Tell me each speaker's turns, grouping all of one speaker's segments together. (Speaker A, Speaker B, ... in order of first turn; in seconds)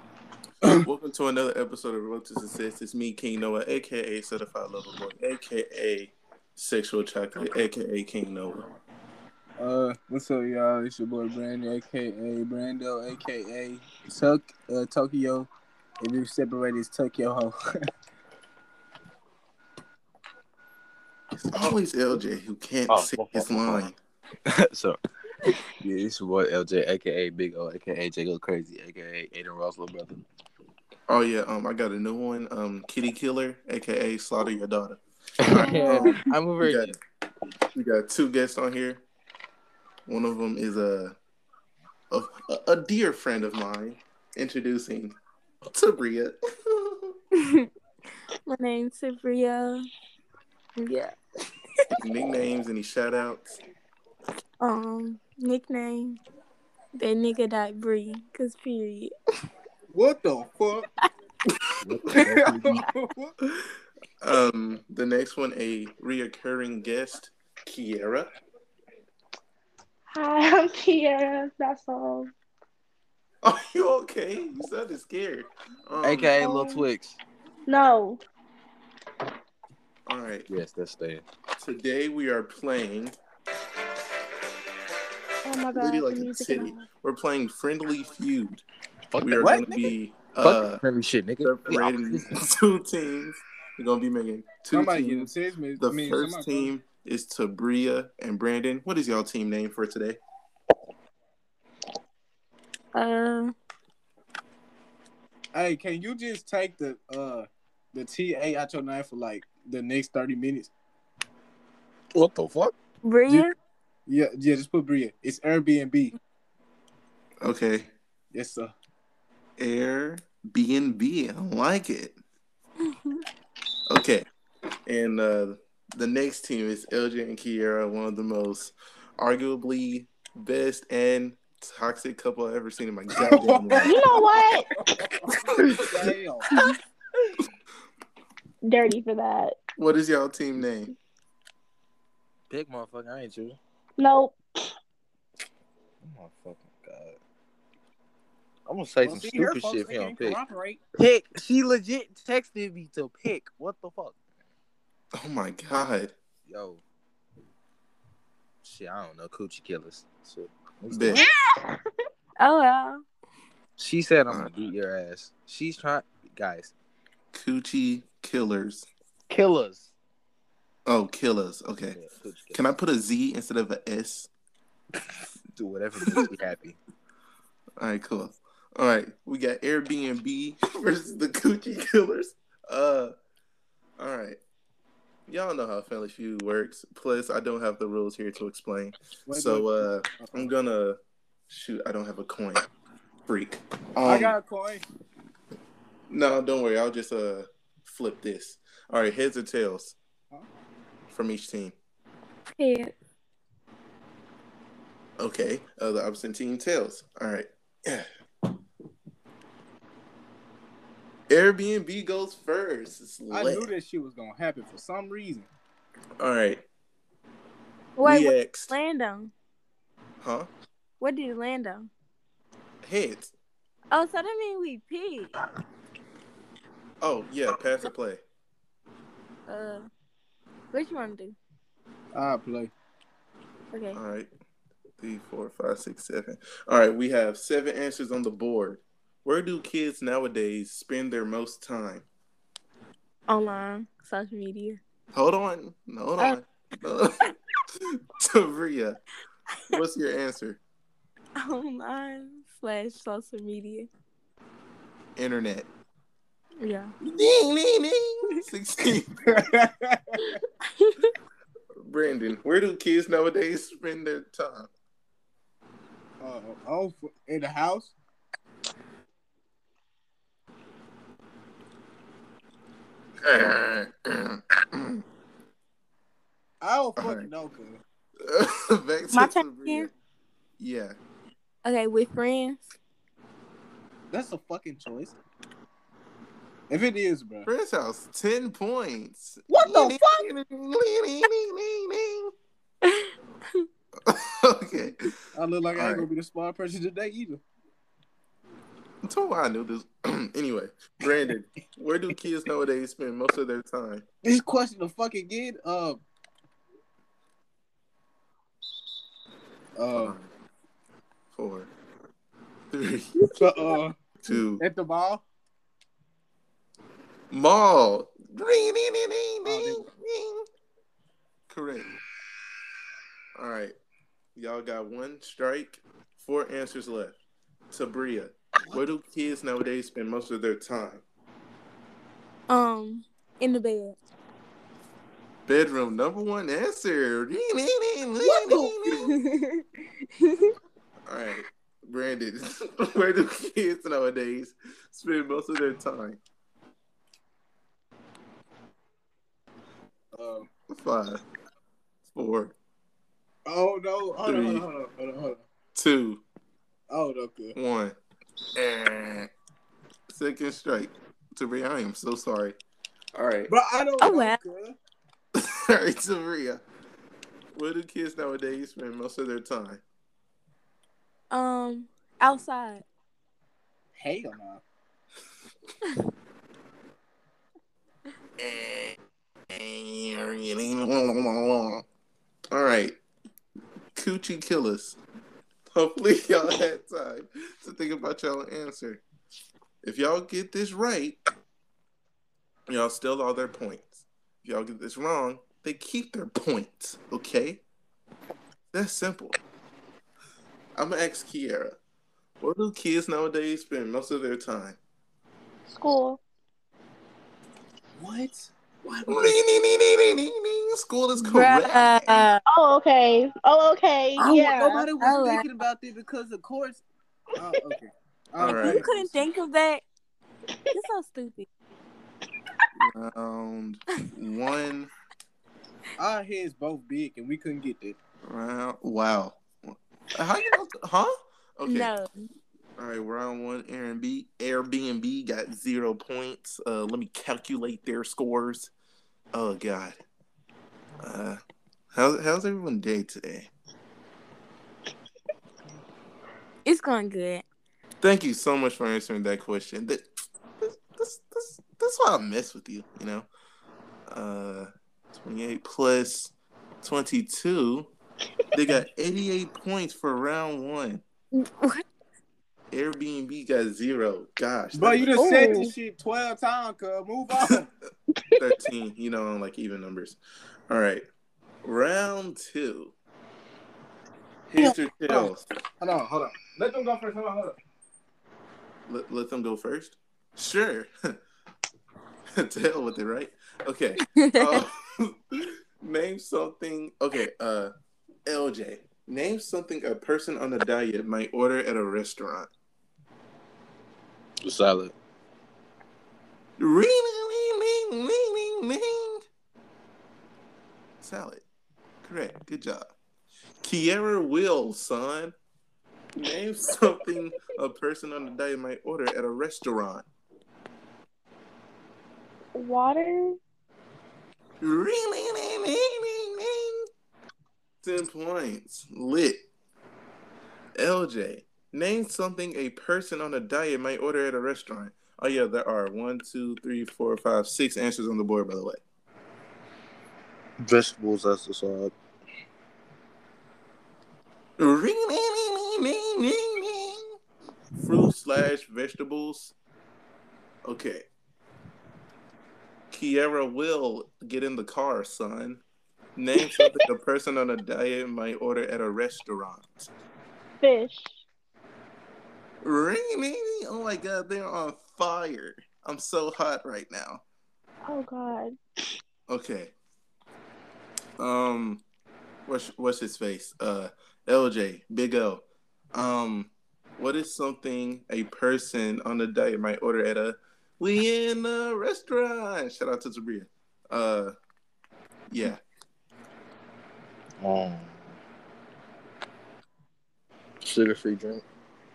Speaker A: 0.6-8.6, 21.5-23.9, 31.1-37.0, 37.7-39.0, 40.1-41.1, 42.1-45.1, 45.7-47.1, 52.0-53.6, 64.2-68.3, 73.4-76.4, 80.0-80.5, 81.6-83.2, 85.7-88.6, 89.2-90.8, 91.4-100.2, 117.4-117.9, 119.6-122.2, 123.9-124.2, 124.9-134.3, 139.8-140.9, 155.2-156.1, 160.9-161.2, 167.3-168.9, 170.8-172.0, 172.5-174.3, 177.8-183.1, 184.0-184.4, 185.3-191.0, 191.5-192.7, 193.3-194.3, 196.1-199.9, 201.1-201.7, 205.2-208.1, 211.3-213.7, 216.2-216.6, 218.0-218.7, 220.2-220.5, 222.8-223.3, 227.0-228.2, 233.9-234.3, 235.0-242.1, 245.1-247.2, 247.9-249.0, 249.7-250.6, 255.2-255.7, 257.0-259.4, 261.8-264.7, 273.2-275.0, 277.0-277.3, 278.2-279.9, 280.6-281.0, 287.4-292.3, 294.1-295.1, 295.7-296.1, 299.0-304.0, 309.9-310.3, 311.3-311.7, 312.7-313.7, 314.2-314.6, 317.3-320.4, 321.5-321.9, 323.4-323.8, 324.4-327.2, 327.7-331.0, 335.4-339.1, 341.1-346.2, 350.7-351.2, 352.1-352.5, 354.2-354.6, 355.7-356.2, 357.6-357.9, 358.5-359.3, 360.1-362.6, 363.1-363.5, 365.4-366.6, 367.5-369.8, 378.4-378.9, 379.5-381.8, 382.5-383.0, 383.9-385.0, 385.7-389.0, 389.8-391.2, 392.7-397.6, 398.7-399.4, 400.8-401.8, 402.4-404.8, 409.1-412.3, 418.4-418.8, 422.8-424.9, 428.3-431.9, 432.8-438.7, 439.3-440.0, 441.0-441.4, 441.9-443.5, 448.0-450.0, 450.6-453.3, 454.1-456.3, 456.8-457.9, 458.5-461.0, 462.7-465.5, 468.4-470.2, 470.7-471.0, 471.6-472.9, 474.5-475.4, 478.9-481.2, 482.4-487.7, 488.3-492.5, 496.6-499.2, 501.0-501.4, 502.0-502.9, 503.6-505.3, 506.1-510.0, 514.6-516.9, 517.8-519.4, 520.8-528.8, 534.6-537.0, 537.8-539.5, 540.6-541.0, 542.9-545.6, 546.1-549.9, 552.6-557.2, 559.3-559.7, 561.2-561.8, 562.5-574.3, 575.3-575.6
Speaker B: 9.6-15.5, 16.0-17.5, 59.9-60.9, 62.1-63.3, 89.4-89.9, 94.7-96.7, 105.5-110.7, 114.1-116.1, 118.3-118.7, 133.2-136.5, 149.0-150.8, 189.3-190.5, 194.0-194.8, 213.3-215.5, 232.1-232.7, 259.2-260.4, 266.2-267.9, 276.6-277.8, 284.1-285.2, 286.7-287.5, 289.5-290.3, 295.3-297.4, 304.2-306.0, 309.8-310.1, 313.3-315.2, 319.4-319.9, 338.2-339.1, 350.1-350.5, 353.4-355.4, 356.9-357.6, 363.5-364.8, 373.9-374.6, 408.0-409.4, 414.2-416.8, 417.4-419.2, 426.0-428.0, 464.7-467.7, 474.6-477.5
Speaker C: 22.9-23.9, 24.5-25.0, 25.8-30.2, 35.4-37.0, 61.8-62.8, 76.0-77.2, 80.5-81.2, 89.1-89.7, 90.4-92.4, 112.1-112.7, 142.5-143.6, 146.0-147.2, 148.7-150.4, 151.0-154.2, 156.4-156.8, 158.6-161.2, 163.8-166.7, 169.3-169.9, 171.9-172.6, 175.5-176.8, 494.4-494.9, 530.6-531.9, 577.4-578.1, 580.6-581.4
Speaker D: 35.6-36.1, 70.1-72.3, 76.4-76.8, 77.7-78.2, 85.4-86.8, 133.8-134.9, 138.6-139.6, 144.0-144.4, 161.1-161.8, 405.7-406.2, 412.4-414.9, 465.2-465.7, 468.1-468.4, 512.5-513.4, 546.4-546.7, 550.6-551.2, 557.9-558.6
Speaker E: 47.3-47.7, 48.5-49.8, 50.8-51.1, 54.6-56.2, 56.9-59.1, 102.9-103.5, 113.0-113.5, 122.9-123.2, 162.4-163.0, 202.6-202.9, 218.0-219.3, 221.0-221.9, 223.9-225.3, 229.5-229.9, 230.7-231.3, 233.7-234.0, 243.3-244.8, 251.4-253.9, 256.6-256.9, 260.6-261.1, 279.1-279.9, 281.6-282.7, 292.8-293.6, 332.5-333.9, 339.0-339.6, 340.2-340.5, 364.0-364.4, 371.3-372.8, 411.3-412.4, 415.0-415.4, 418.5-419.8, 420.7-421.5, 431.6-432.1, 446.6-447.4, 461.3-461.8, 484.1-484.6